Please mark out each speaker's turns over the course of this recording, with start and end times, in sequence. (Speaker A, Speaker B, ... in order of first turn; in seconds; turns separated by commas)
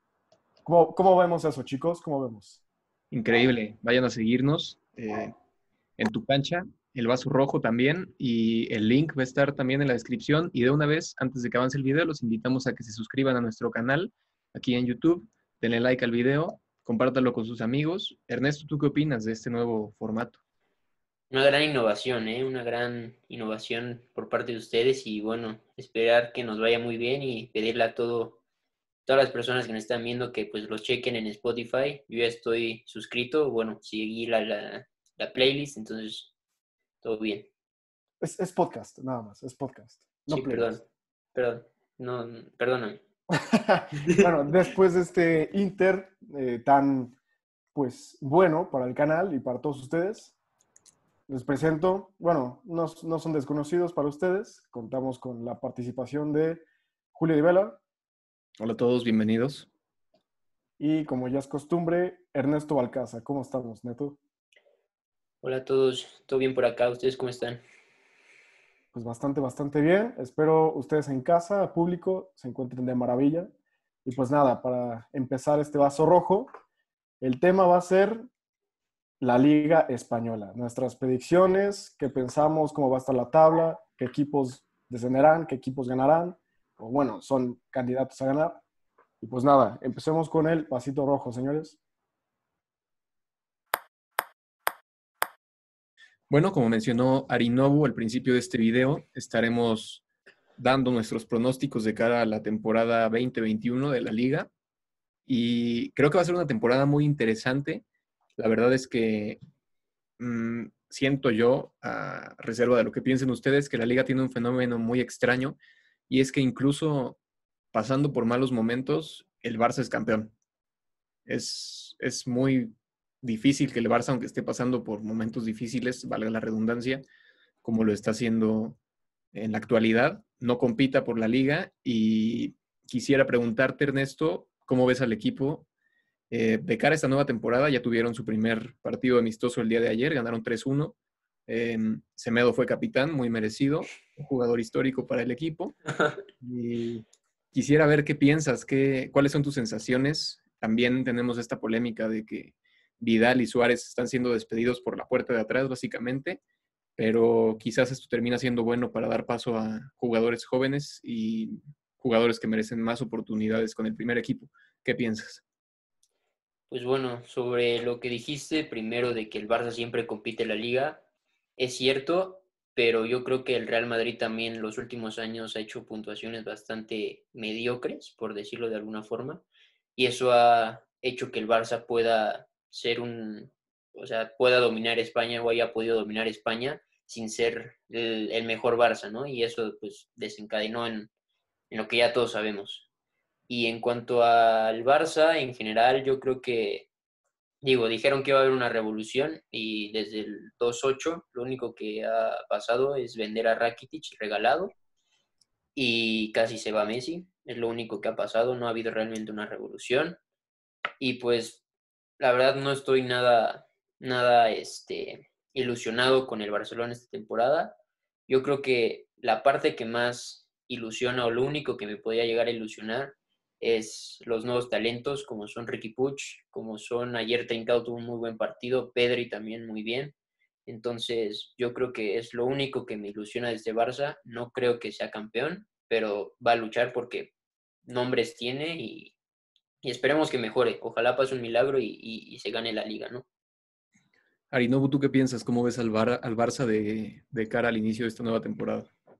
Speaker A: 0.6-2.6, Speaker B: 3.1-5.3, Speaker B: 6.0-20.4, Speaker C: 21.3-28.4, Speaker C: 29.1-36.3, Speaker C: 37.0-37.5, Speaker A: 38.2-40.8, Speaker C: 40.3-40.8, Speaker C: 41.3-43.0, Speaker A: 43.3-47.1, Speaker A: 47.7-50.3, Speaker A: 51.3-57.8, Speaker B: 58.6-59.7, Speaker A: 60.8-64.2, Speaker C: 65.4-67.6, Speaker A: 68.9-73.5, Speaker A: 74.0-76.5, Speaker A: 77.2-78.3, Speaker A: 79.2-88.6, Speaker A: 89.2-91.8, Speaker B: 96.3-100.0, Speaker B: 100.6-104.5, Speaker B: 105.2-107.8, Speaker B: 108.4-109.4, Speaker B: 110.2-115.6, Speaker B: 116.1-117.2, Speaker B: 117.7-120.3, Speaker B: 121.2-127.0, Speaker B: 127.6-128.8, Speaker B: 129.3-135.7, Speaker B: 136.3-140.9, Speaker B: 141.5-145.8, Speaker B: 146.4-156.4, Speaker B: 157.0-165.4, Speaker C: 166.7-171.0, Speaker C: 171.6-179.4, Speaker C: 179.9-191.1, Speaker C: 191.7-192.8, Speaker C: 193.5-196.9, Speaker C: 197.6-204.7, Speaker C: 205.7-210.2, Speaker C: 211.0-211.6, Speaker C: 212.2-217.8, Speaker C: 218.3-230.1, Speaker C: 230.7-237.3, Speaker C: 237.8-239.1, Speaker C: 239.8-243.2, Speaker B: 244.5-248.9